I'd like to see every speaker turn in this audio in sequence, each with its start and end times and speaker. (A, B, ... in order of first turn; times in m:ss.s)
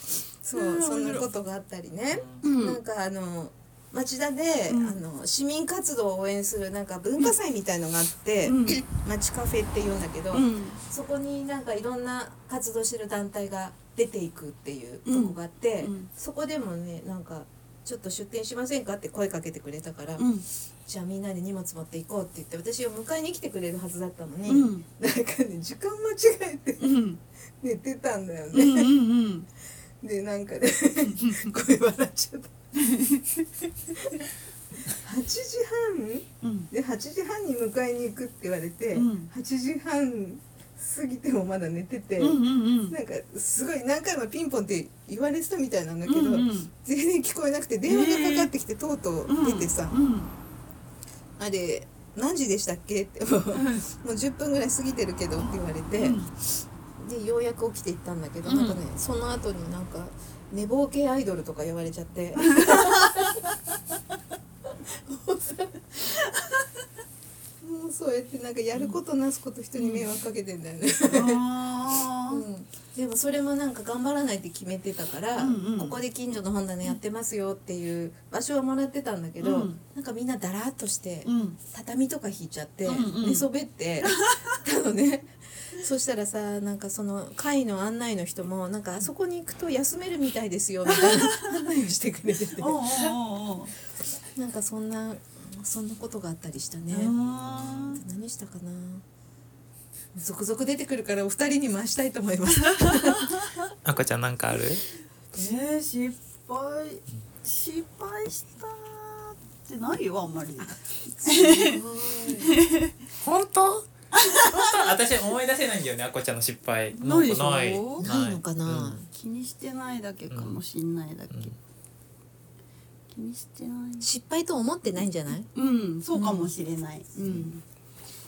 0:00.4-0:20.3 A
0:00.5-0:01.3 B
0:02.1-0:02.5 C
0:02.4-0:02.8 B
0:04.7-0:05.0 B
0:08.4-0:08.8 B
0:10.3-0:10.8 B
0:15.1-0:16.1 B
0:20.2-0:20.4 B
0:20.9-0:26.9 A
0:24.5-0:24.8 B
0:26.8-0:27.2 B
0:27.6-0:28.9 A
0:28.5-0:29.5 B
0:30.0-0:32.5 A
0:31.0-0:31.5 B
0:32.8-0:33.5 B
0:34.9-0:50.0 A
0:36.4-0:36.7 B
0:38.9-0:39.3 B
0:42.2-0:43.0 B
0:46.0-0:46.7 B
0:47.8-0:48.5 B
0:49.3-0:50.3 B
0:51.4-1:03.4 A
0:53.5-0:53.9 B
0:56.0-0:56.3 B
0:58.4-0:58.8 B
1:07.6-1:11.5 A
1:09.8-1:10.2 B
1:11.0-1:12.4 B
1:12.3-1:33.1 A
1:15.4-1:16.0 B
1:19.4-1:19.8 B
1:21.2-1:21.6 B
1:22.8-1:23.5 B
1:24.1-1:24.4 B
1:30.9-1:31.4 B
1:32.6-1:33.7 B
1:34.4-1:37.2 A
1:36.9-1:38.0 B
1:37.4-1:37.9 C
1:37.8-1:39.0 A
1:40.2-1:43.4 A
1:43.8-1:44.8 C
1:45.3-1:51.8 B
1:51.2-1:52.6 A
1:52.5-1:52.9 B
1:53.2-1:53.9 C
1:54.2-1:54.4 B
1:54.4-1:59.0 C
1:56.9-1:58.1 B
1:58.0-1:59.1 A
1:59.1-2:01.6 B
2:00.3-2:00.6 C
2:01.3-2:01.6 C
2:03.1-2:04.1 B
2:04.0-2:05.5 A
2:05.5-2:07.6 B
2:06.1-2:06.5 A